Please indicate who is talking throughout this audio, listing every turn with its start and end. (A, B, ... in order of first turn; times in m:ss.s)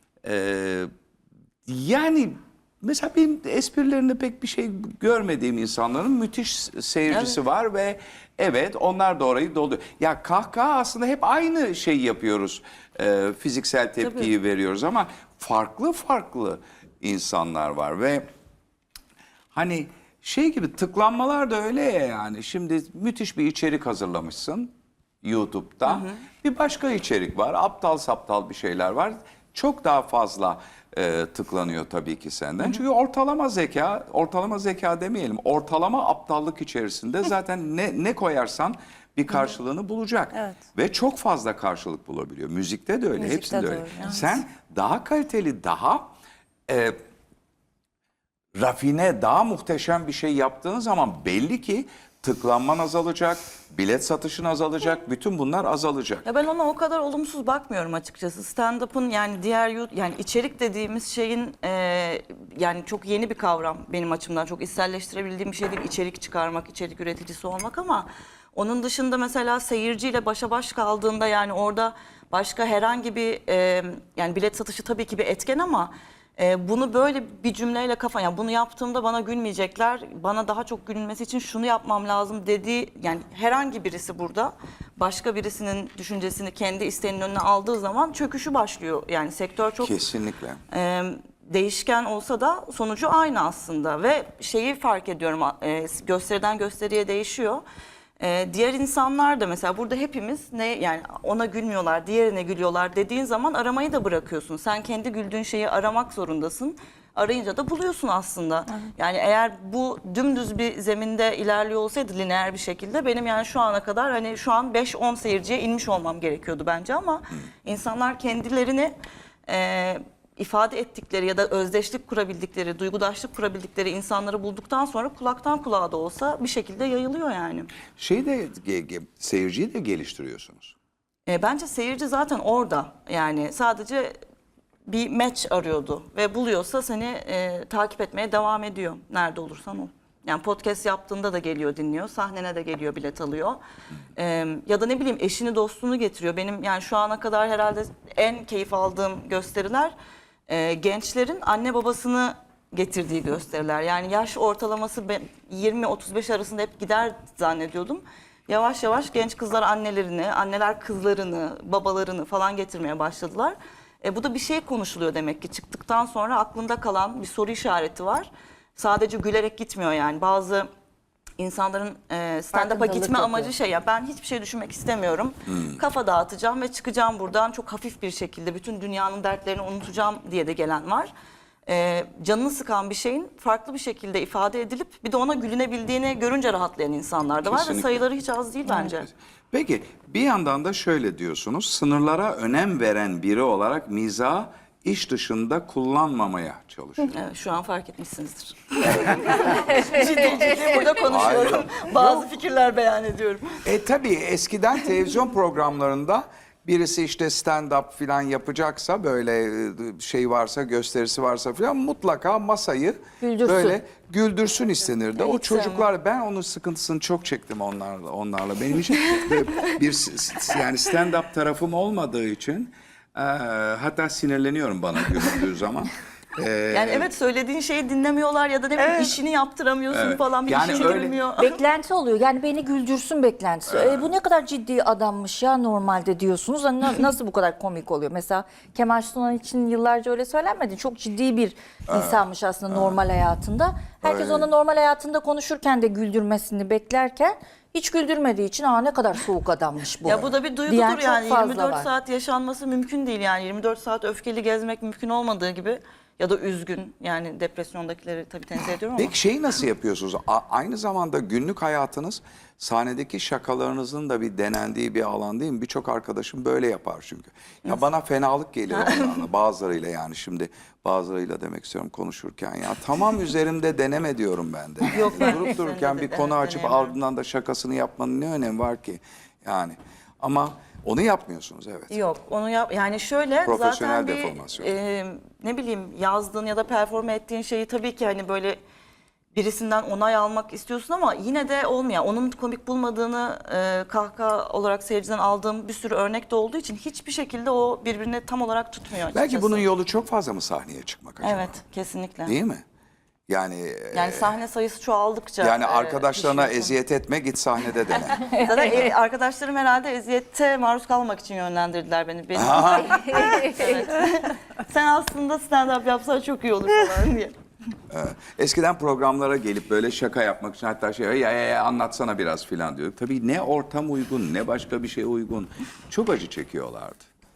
0:00.2-0:00.9 A
0:01.7-0:18.2 A
0:07.1-0:07.4 B
0:14.0-0:14.3 B
0:19.5-0:24.7 A
0:25.2-0:46.1 A
0:25.9-0:26.1 B
0:43.2-0:44.3 C
0:46.7-0:47.0 A
0:48.6-0:56.2 A
0:56.2-1:30.0 B
1:29.8-1:30.6 A
1:30.7-1:37.6 B
1:38.2-1:58.9 B
1:59.5-2:07.7 B
2:08.0-2:10.7 A
2:11.3-2:14.2 B
2:14.9-2:23.6 B
2:24.2-2:29.9 B
2:30.5-2:50.7 B
2:51.4-3:01.1 B
2:52.5-2:53.5 C
2:55.5-2:55.8 A
3:01.7-3:09.1 B
3:07.4-3:08.1 A
3:08.8-3:17.1 A
3:17.1-3:23.6 B
3:21.1-3:22.3 A
3:23.6-3:47.1 A
3:33.2-3:33.8 C
3:35.2-3:35.8 B
3:46.7-3:51.6 B
3:49.9-3:51.2 A
3:51.4-4:11.9 C
3:53.7-3:54.1 A
4:01.9-4:03.0 A
4:04.0-4:04.5 A
4:10.0-4:19.2 B
4:19.0-4:42.0 A
4:28.7-4:29.2 B
4:34.9-4:37.0 B
4:41.9-4:48.6 B
4:43.4-4:44.7 A
4:49.3-4:59.7 B
4:59.1-5:01.6 A
5:01.2-5:02.4 B
5:02.2-5:02.6 A
5:03.3-5:04.3 A
5:03.9-5:06.7 B
5:05.4-5:08.3 A
5:08.2-5:08.8 C
5:08.2-5:17.4 B
5:12.3-5:13.0 A
5:12.9-5:13.8 C
5:17.9-5:27.1 A